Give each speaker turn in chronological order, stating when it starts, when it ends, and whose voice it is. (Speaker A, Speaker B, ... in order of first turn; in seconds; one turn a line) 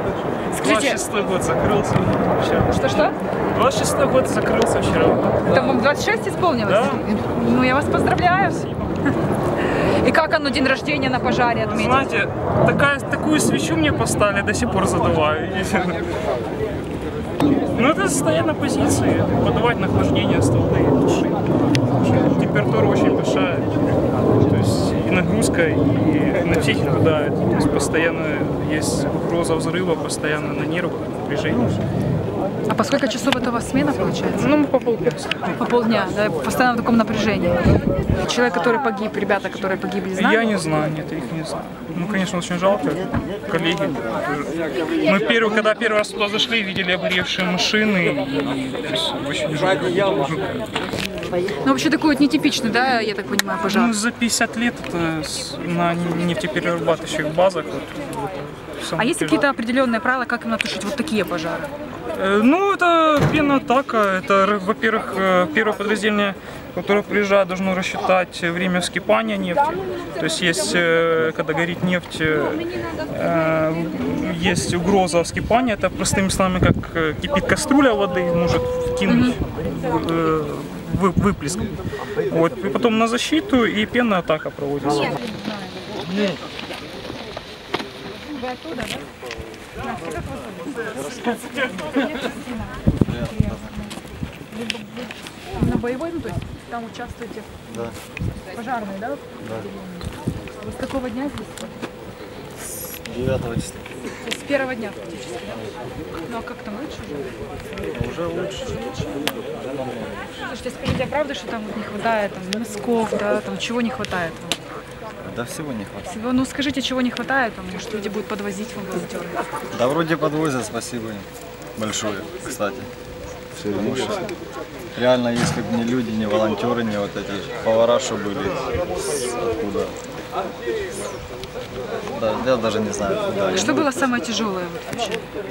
Speaker A: 0.5-1.0
Speaker B: 0.6-2.7
Speaker A: 2.7-3.2
Speaker B: 3.5-5.5
Speaker A: 5.5-9.1
Speaker B: 6.7-7.0
Speaker A: 9.7-12.2
Speaker B: 11.7-16.0
Speaker B: 17.7-21.4
Speaker B: 22.0-23.7
Speaker B: 24.4-31.8
Speaker A: 32.7-34.5
Speaker B: 34.4-35.4
Speaker A: 35.5-40.5
Speaker B: 40.1-50.7
Speaker A: 51.6-54.0
Speaker B: 53.7-58.0
Speaker B: 58.8-59.4
Speaker A: 59.0-61.7
Speaker B: 62.1-81.7
Speaker A: 79.0-79.3
Speaker B: 82.3-85.1
Speaker A: 84.9-85.8
Speaker A: 88.1-89.1
Speaker A: 89.8-91.0
Speaker A: 91.7-93.9
Speaker C: 93.0-93.7
Speaker A: 94.5-97.5
Speaker C: 97.7-98.0
Speaker A: 98.5-100.0
Speaker C: 99.4-99.7
Speaker A: 100.6-101.8
Speaker C: 102.6-103.9
Speaker A: 104.2-105.5
Speaker A: 106.2-107.3
Speaker C: 107.9-110.3
Speaker A: 110.4-114.6
Speaker C: 115.2-116.2
Speaker A: 116.0-119.4
Speaker C: 119.7-121.2
Speaker C: 121.8-122.9
Speaker C: 123.5-124.3
Speaker C: 124.9-130.0
Speaker C: 132.1-133.9
Speaker A: 133.5-135.2